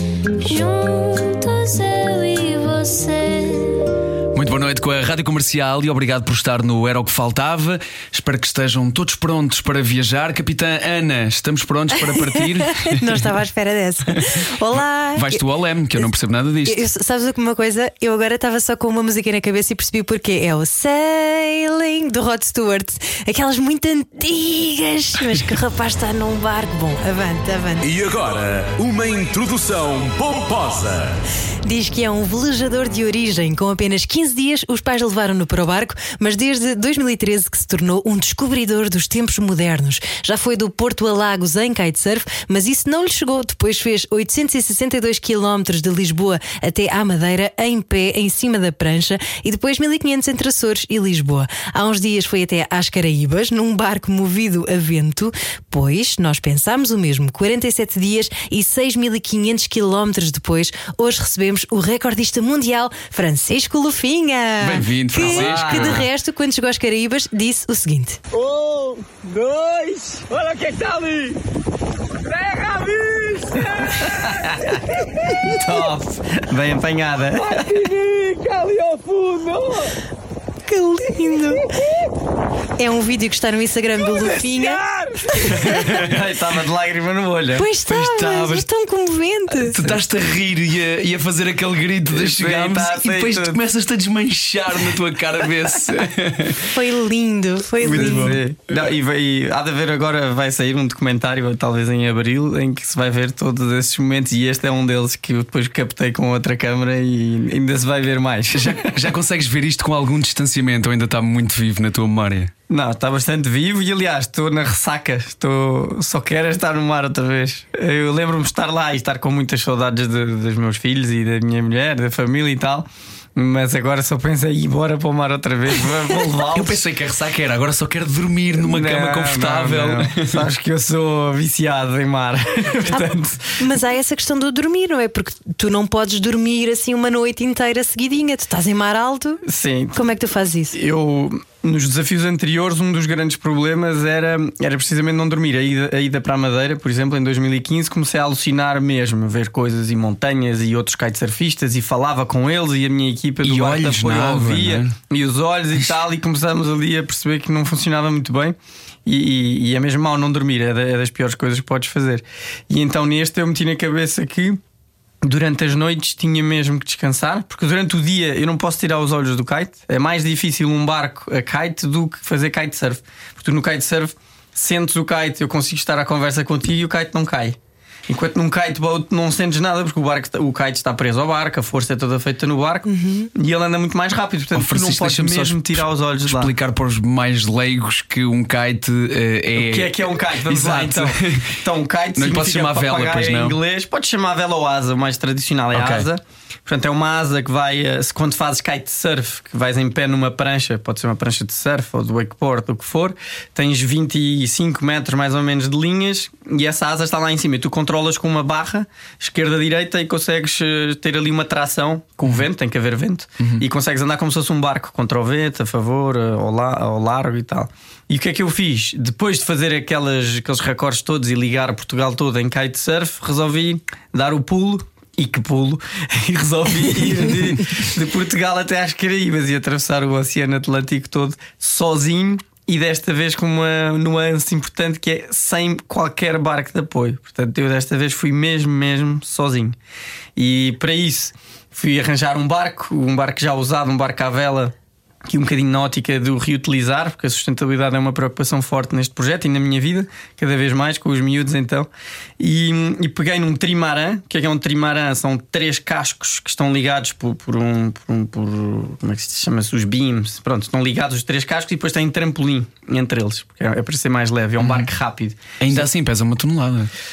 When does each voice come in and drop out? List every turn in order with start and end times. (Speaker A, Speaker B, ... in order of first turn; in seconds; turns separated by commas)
Speaker A: 0.4-3.9, Speaker B: 4.3-13.3, Speaker C: 12.1-15.4, Speaker B: 14.1-16.8, Speaker C: 16.6-27.9, Speaker D: 27.8-31.1, Speaker C: 31.7-68.2, Speaker B: 64.6-66.1, Speaker E: 65.2-66.0, Speaker F: 68.3-71.4, Speaker F: 72.2-75.6, Speaker E: 74.4-74.8, Speaker E: 75.5-77.7, Speaker F: 77.3-80.0, Speaker C: 80.7-81.7, Speaker F: 81.6-82.1, Speaker C: 82.8-84.8, Speaker F: 84.0-85.9, Speaker C: 85.3-85.8, Speaker B: 85.7-86.1, Speaker E: 85.7-87.7, Speaker C: 87.5-89.9, Speaker B: 87.8-88.7, Speaker B: 89.6-96.7, Speaker E: 92.1-93.6, Speaker C: 96.6-98.4, Speaker B: 97.8-98.4, Speaker E: 97.8-109.0, Speaker B: 108.5-112.5, Speaker E: 112.7-126.8, Speaker B: 126.5-130.4, Speaker E: 128.6-133.6, Speaker C: 133.6-139.4, Speaker E: 139.4-140.1, Speaker C: 139.9-140.8, Speaker E: 140.7-164.6, Speaker B: 153.4-154.9, Speaker E: 165.2-177.6, Speaker E: 178.1-186.5, Speaker C: 182.9-183.3, Speaker B: 184.5-191.5, Speaker E: 189.6-239.8, Speaker B: 192.2-193.6, Speaker B: 195.7-196.1, Speaker E: 240.4-244.7, Speaker E: 245.3-265.9, Speaker B: 264.6-264.9, Speaker B: 265.6-266.9